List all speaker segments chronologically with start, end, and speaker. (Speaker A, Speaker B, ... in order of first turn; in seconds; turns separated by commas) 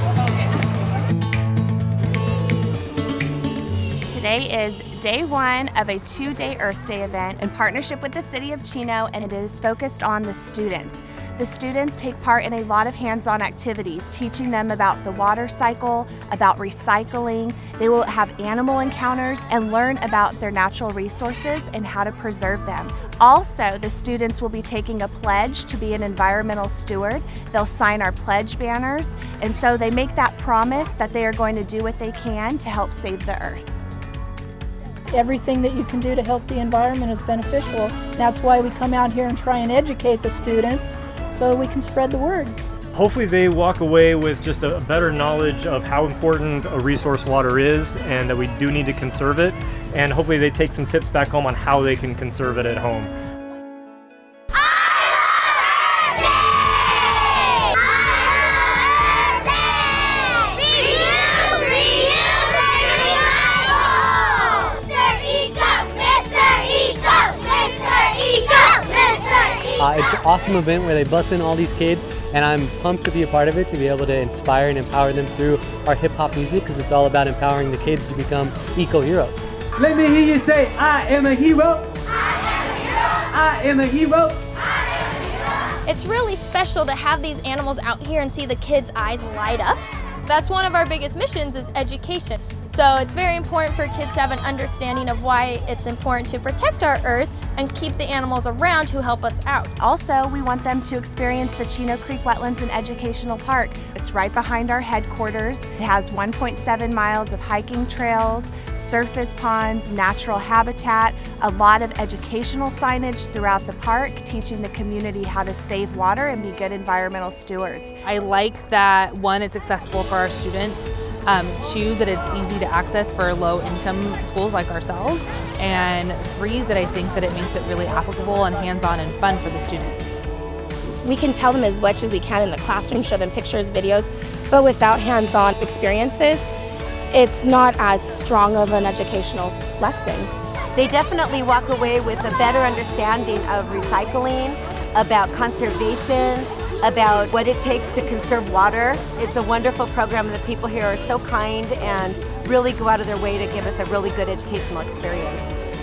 Speaker A: 4.0-33.7, Speaker B: 35.1-42.6, Speaker C: 42.9-53.1, Speaker D: 69.8-79.4, Speaker E: 79.8-81.9, Speaker E: 83.3-84.4, Speaker F: 85.9-99.7, Speaker A: 99.8-118.0, Speaker G: 118.0-130.2, Speaker H: 131.0-136.4, Speaker H: 137.1-140.3, Speaker I: 140.8-155.6